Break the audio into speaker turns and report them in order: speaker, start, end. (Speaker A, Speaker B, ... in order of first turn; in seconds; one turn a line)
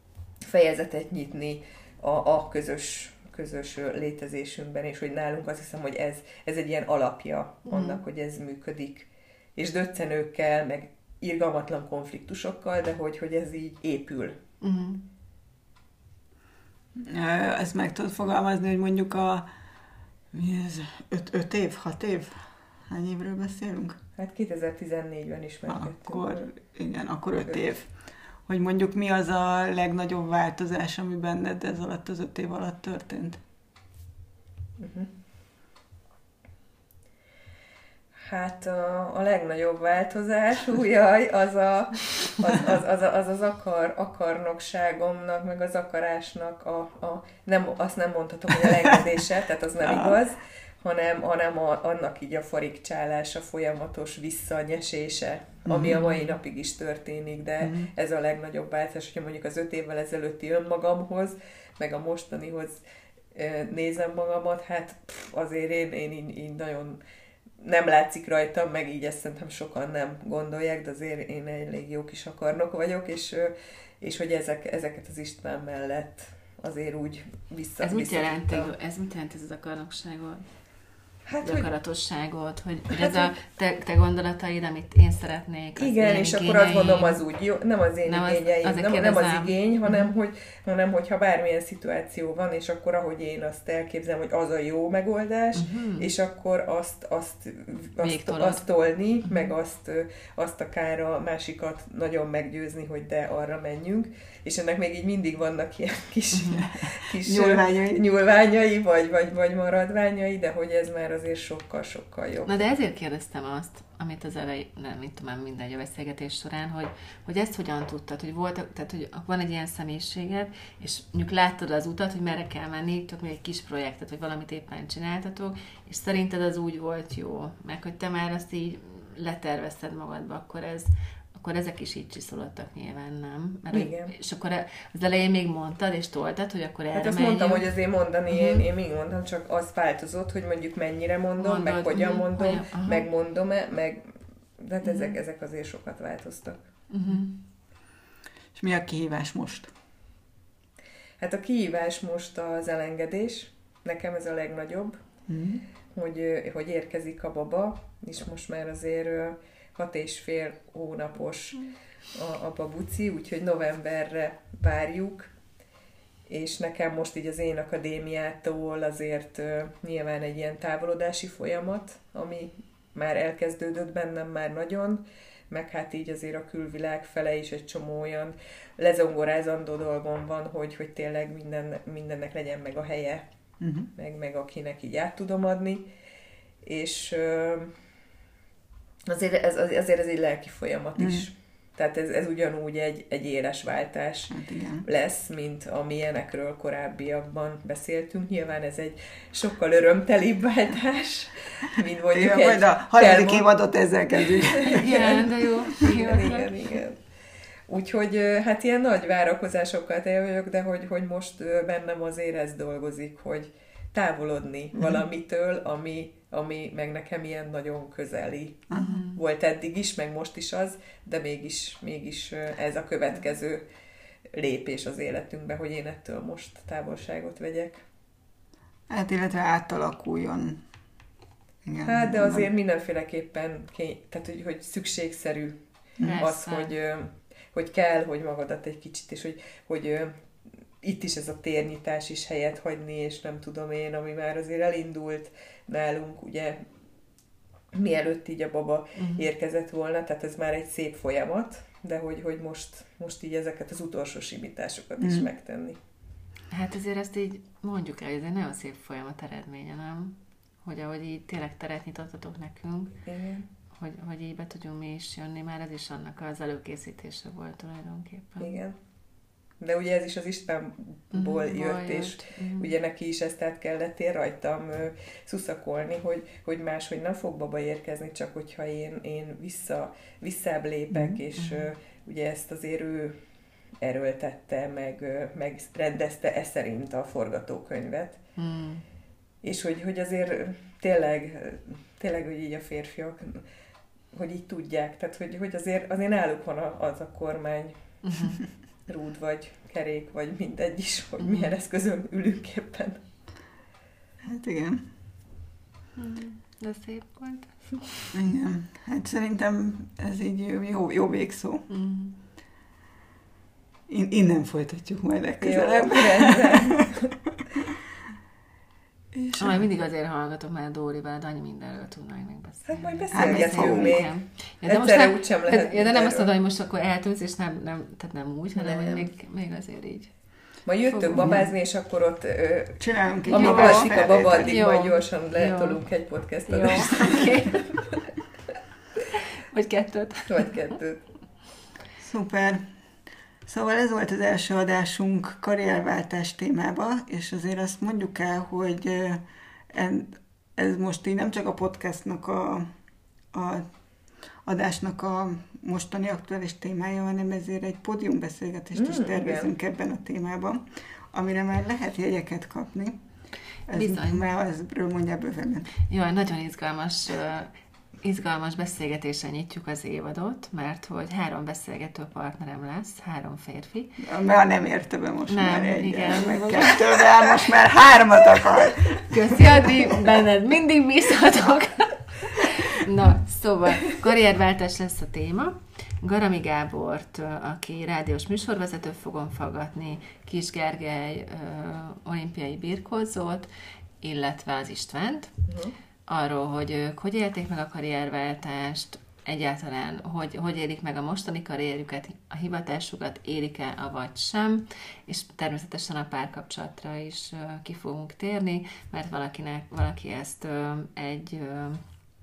Speaker A: 0.4-14.4
Speaker B: 7.7-8.0
Speaker B: 14.6-15.1
Speaker C: 16.9-19.4
Speaker C: 20.3-24.0
Speaker A: 24.2-26.4
Speaker C: 25.7-27.9
Speaker C: 28.5-33.4
Speaker A: 34.8-35.1
Speaker A: 38.3-62.8
Speaker C: 49.8-50.2
Speaker C: 55.7-56.0
Speaker B: 55.9-56.2
Speaker C: 57.6-57.9
Speaker A: 63.3-67.0
Speaker A: 67.6-78.7
Speaker B: 77.8-80.5
Speaker A: 81.3-81.7
Speaker B: 81.4-87.2
Speaker A: 82.9-83.3
Speaker A: 85.8-112.5
Speaker B: 88.1-90.1
Speaker B: 95.5-96.1
Speaker B: 98.0-98.6
Speaker B: 106.3-106.6
Speaker C: 106.6-108.0
Speaker B: 112.5-137.6
Speaker A: 133.7-134.1
Speaker A: 136.9-146.6
Speaker B: 138.3-138.6
Speaker B: 141.4-143.1
Speaker B: 144.8-145.1
Speaker B: 146.9-147.4
Speaker C: 148.6-149.7
Speaker A: 151.2-155.0
Speaker C: 155.3-155.6
Speaker A: 155.9-165.3
Speaker A: 166.3-183.2
Speaker C: 183.6-183.9
Speaker A: 183.9-185.9
Speaker A: 186.6-187.8
Speaker A: 189.1-203.5
Speaker C: 191.0-191.2
Speaker C: 194.3-194.8
Speaker C: 202.1-204.9
Speaker A: 204.2-207.0
Speaker B: 204.7-206.6
Speaker A: 207.7-223.6
Speaker C: 214.8-215.0
Speaker B: 218.7-219.2
Speaker A: 224.3-227.8
Speaker C: 228.9-230.6
Speaker C: 231.6-232.5
Speaker A: 231.8-235.6
Speaker B: 236.0-236.7
Speaker A: 236.2-240.2
Speaker A: 240.8-246.6
Speaker A: 247.7-255.8
Speaker B: 248.9-249.3
Speaker C: 255.0-255.3
Speaker B: 256.5-263.0
Speaker A: 263.1-263.5
Speaker B: 263.7-268.6
Speaker A: 268.4-268.8
Speaker A: 269.6-283.2
Speaker B: 271.1-272.7
Speaker C: 280.9-281.2
Speaker B: 281.4-281.7
Speaker A: 283.8-288.2
Speaker B: 288.4-288.8
Speaker A: 289.4-293.4
Speaker A: 294.1-297.8
Speaker B: 298.0-298.4
Speaker A: 298.9-303.0
Speaker B: 301.2-301.5
Speaker C: 304.2-304.9
Speaker B: 305.9-308.1
Speaker C: 308.1-311.7
Speaker B: 311.7-312.2
Speaker C: 313.9-316.9
Speaker A: 315.4-317.1
Speaker C: 319.1-319.6
Speaker B: 319.4-330.1
Speaker A: 322.7-326.3
Speaker C: 323.1-324.1
Speaker A: 328.6-329.1
Speaker A: 330.6-337.6
Speaker B: 330.9-331.4
Speaker C: 331.1-331.5
Speaker C: 332.8-334.6
Speaker B: 333.3-335.8
Speaker B: 336.5-337.6
Speaker B: 339.5-340.5
Speaker A: 340.3-341.0
Speaker C: 342.0-342.7
Speaker C: 343.4-352.7
Speaker C: 353.3-353.7
Speaker C: 354.4-363.0
Speaker A: 358.7-359.5
Speaker C: 363.7-365.7
Speaker B: 363.7-364.2
Speaker B: 365.9-374.0
Speaker C: 374.0-379.7
Speaker B: 375.3-377.4
Speaker B: 379.0-393.5
Speaker B: 394.0-395.3
Speaker A: 395.5-395.7
Speaker B: 396.1-411.8